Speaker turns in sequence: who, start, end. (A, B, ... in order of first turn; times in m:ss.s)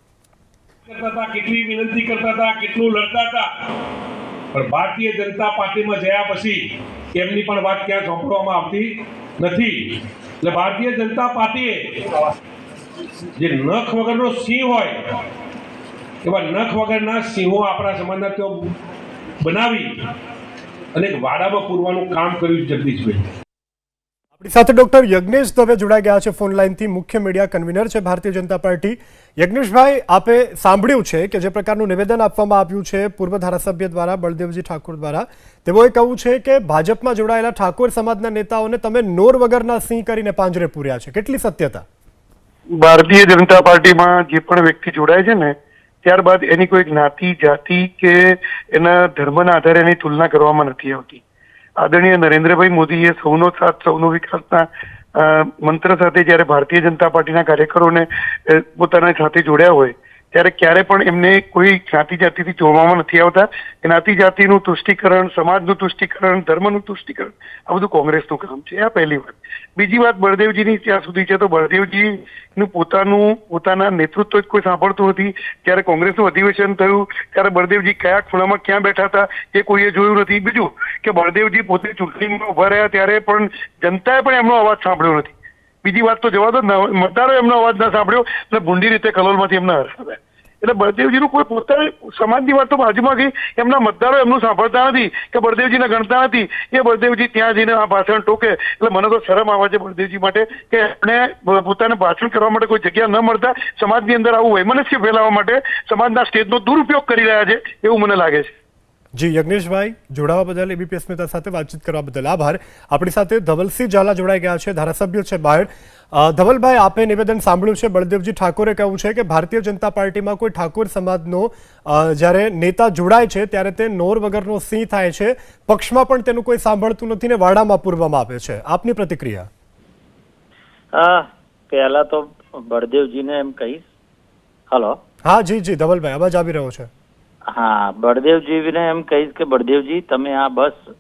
0:00.9-0:03.5 A
0:04.5-0:12.0 A
0:13.4-0:15.1 A
0:16.2-0:18.7 A
0:19.4-0:19.9 A
0:20.9-0:23.3 A
0:24.4-0:41.8 B
0:42.8-0:51.2 C
0:51.8-1:25.3 C
1:25.8-1:48.5 C
1:49.2-2:09.5 B
2:10.9-2:13.8 D
2:14.7-2:15.0 D
2:15.2-2:16.9 B
2:17.5-2:20.8 D